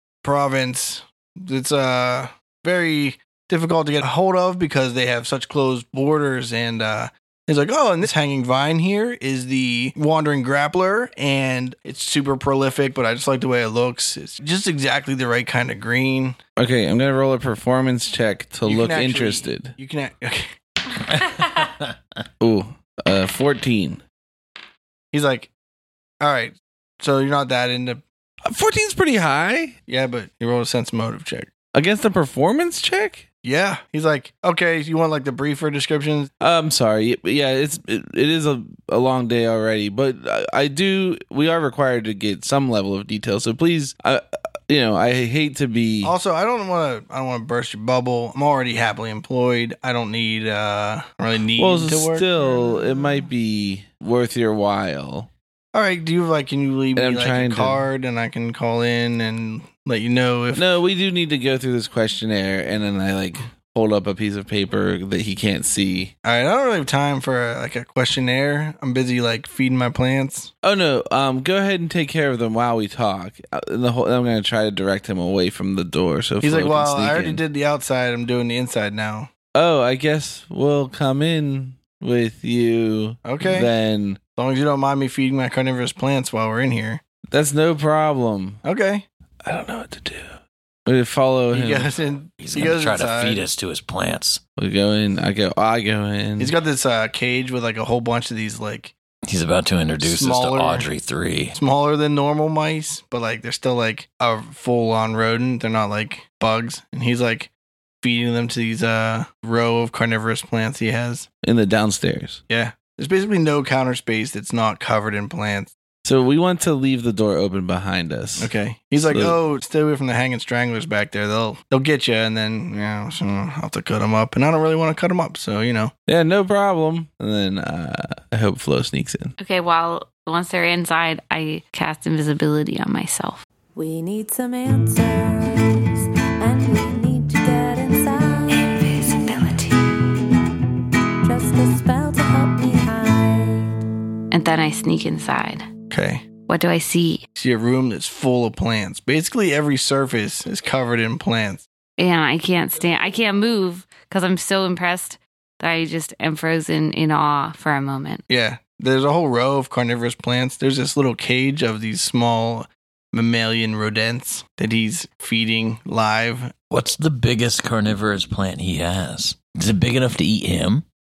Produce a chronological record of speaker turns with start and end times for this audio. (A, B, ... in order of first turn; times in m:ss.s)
0:00.2-0:16.4 A
0:16.6-0:19.7 B
0:18.6-0:20.5 A
0:21.1-0:21.9 C
0:22.4-0:24.0 B
0:25.1-0:25.5 A
0:26.2-0:28.0 A
0:28.4-0:29.8 B
0:29.9-0:31.5 A
0:31.7-0:33.2 B
0:33.4-0:36.3 A
0:36.4-0:46.1 B
0:46.0-0:52.3 A
0:51.6-0:55.3 B
0:55.7-1:00.6 A
0:56.9-0:57.8 B
1:00.5-1:06.1 B
1:06.2-1:10.5 A
1:10.6-1:17.4 B
1:16.4-1:19.3 A
1:19.5-1:24.2 B
1:23.2-1:23.7 A
1:24.4-1:27.0 A
1:27.3-1:28.6 B
1:28.6-1:29.0 A
1:29.4-1:30.3 B
1:30.8-1:31.9 B
1:31.5-1:33.4 A
1:32.4-1:34.4 C
1:34.6-1:36.5 B
1:36.4-1:38.9 A
1:39.3-1:41.6 C
1:40.0-1:40.9 A
1:41.5-1:47.5 A
1:48.0-1:51.3 A
1:51.4-1:52.4 B
1:52.5-1:55.7 A
1:56.0-1:58.5 B
1:58.4-2:05.9 A
1:59.0-1:59.4 B
2:06.1-2:09.3 B
2:09.4-2:13.4 D
2:13.8-2:15.8 E
2:16.4-2:19.2 E
2:18.5-2:20.1 D
2:21.2-2:23.6 E
2:24.3-2:25.7 D
2:25.9-2:26.2 A
2:26.5-2:27.2 D
2:27.4-2:31.6 A
2:32.0-2:38.2 D
2:38.3-2:46.5 A
2:46.7-2:50.8 C